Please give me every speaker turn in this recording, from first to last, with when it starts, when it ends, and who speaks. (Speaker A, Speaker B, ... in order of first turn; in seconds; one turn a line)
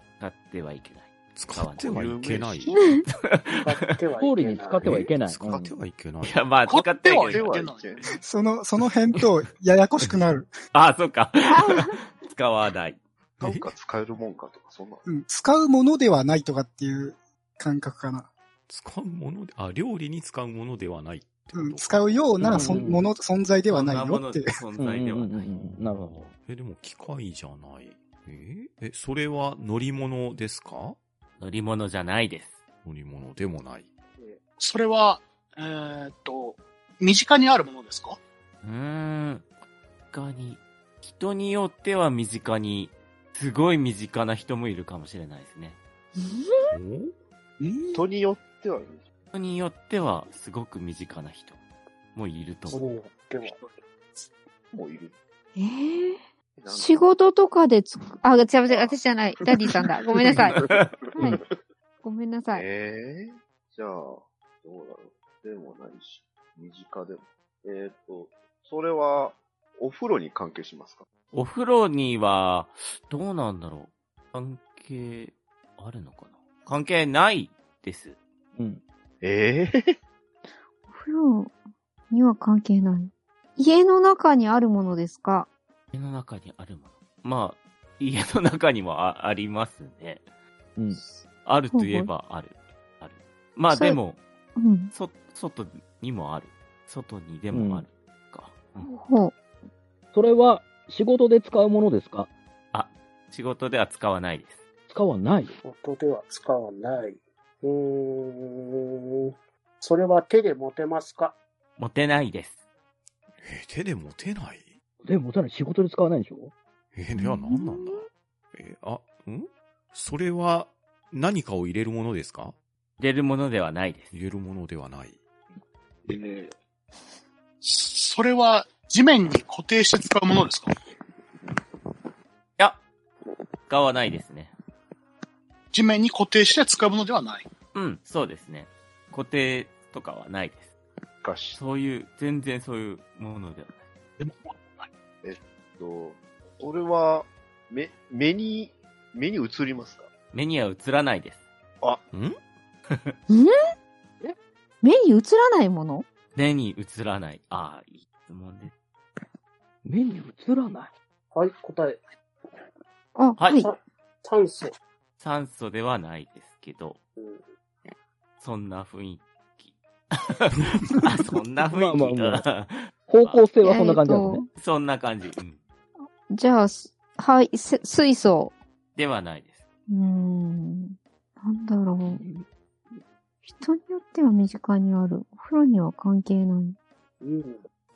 Speaker A: 0.2-2.1
Speaker B: 1.4-2.8
Speaker C: 1.9-2.8
Speaker D: 2.7-3.0
Speaker A: 3.1-3.8
Speaker E: 3.5-5.1
Speaker F: 4.2-5.8
Speaker B: 4.8-6.5
Speaker A: 6.2-7.5
Speaker G: 6.7-8.1
Speaker C: 7.2-8.2
Speaker H: 8.2-10.5
Speaker A: 10.7-13.0
Speaker D: 11.5-12.0
Speaker B: 13.4-13.7
Speaker C: 13.4-15.1
Speaker H: 15.1-18.3
Speaker B: 18.7-23.0
Speaker H: 21.5-24.6
Speaker F: 22.4-23.1
Speaker A: 23.7-25.5
Speaker F: 24.8-26.2
Speaker B: 25.6-31.0
Speaker A: 31.4-32.6
Speaker B: 32.9-33.9
Speaker G: 34.6-38.2
Speaker A: 38.6-39.5
Speaker A: 40.1-45.8
Speaker D: 46.2-46.8
Speaker B: 46.7-48.0
Speaker C: 47.9-49.0
Speaker A: 49.3-51.6
Speaker A: 52.1-52.8
Speaker E: 52.7-53.7
Speaker C: 54.7-55.1
Speaker D: 55.6-56.2
Speaker C: 56.6-57.1
Speaker D: 56.7-60.6
Speaker C: 60.3-61.5
Speaker A: 60.5-60.8
Speaker D: 61.1-61.4
Speaker D: 62.0-62.7
Speaker C: 62.5-71.0
Speaker A: 71.3-78.2
Speaker F: 78.6-78.8
Speaker C: 79.2-80.0
Speaker D: 80.9-81.5
Speaker D: 82.1-85.5
Speaker A: 85.9-90.2
Speaker F: 90.8-91.0
Speaker A: 91.5-94.2
Speaker D: 91.7-92.1
Speaker D: 93.7-94.0
Speaker D: 94.6-94.9
Speaker A: 94.9-98.9
Speaker F: 97.5-97.8
Speaker D: 98.8-99.3
Speaker F: 100.1-102.3
Speaker A: 102.7-104.6
Speaker F: 104.9-105.6
Speaker E: 105.6-111.4
Speaker A: 111.8-112.6
Speaker B: 113.4-114.7
Speaker F: 115.0-116.5
Speaker B: 116.9-122.5
Speaker D: 117.2-118.1
Speaker A: 123.0-124.2
Speaker B: 124.1-125.2
Speaker G: 126.1-126.5
Speaker G: 127.6-130.8
Speaker A: 133.7-134.5
Speaker G: 135.7-137.5
Speaker A: 137.7-140.7
Speaker C: 141.2-141.6
Speaker A: 141.6-143.8
Speaker G: 144.2-144.9
Speaker C: 145.2-150.1
Speaker A: 150.3-151.4
Speaker B: 152.1-152.4
Speaker A: 152.9-153.2
Speaker D: 154.8-156.1
Speaker A: 156.3-158.7
Speaker F: 159.8-160.9
Speaker E: 161.3-162.0
Speaker D: 163.2-163.7
Speaker A: 163.4-163.6
Speaker E: 163.6-164.8
Speaker A: 165.2-167.0
Speaker E: 167.2-167.5
Speaker A: 168.4-173.4
Speaker F: 171.7-172.4
Speaker F: 173.1-174.4
Speaker D: 173.6-174.5
Speaker A: 174.6-175.6
Speaker D: 176.3-178.6
Speaker A: 179.0-179.6
Speaker D: 179.9-182.2
Speaker F: 182.1-182.4
Speaker D: 183.5-186.8
Speaker E: 187.2-187.7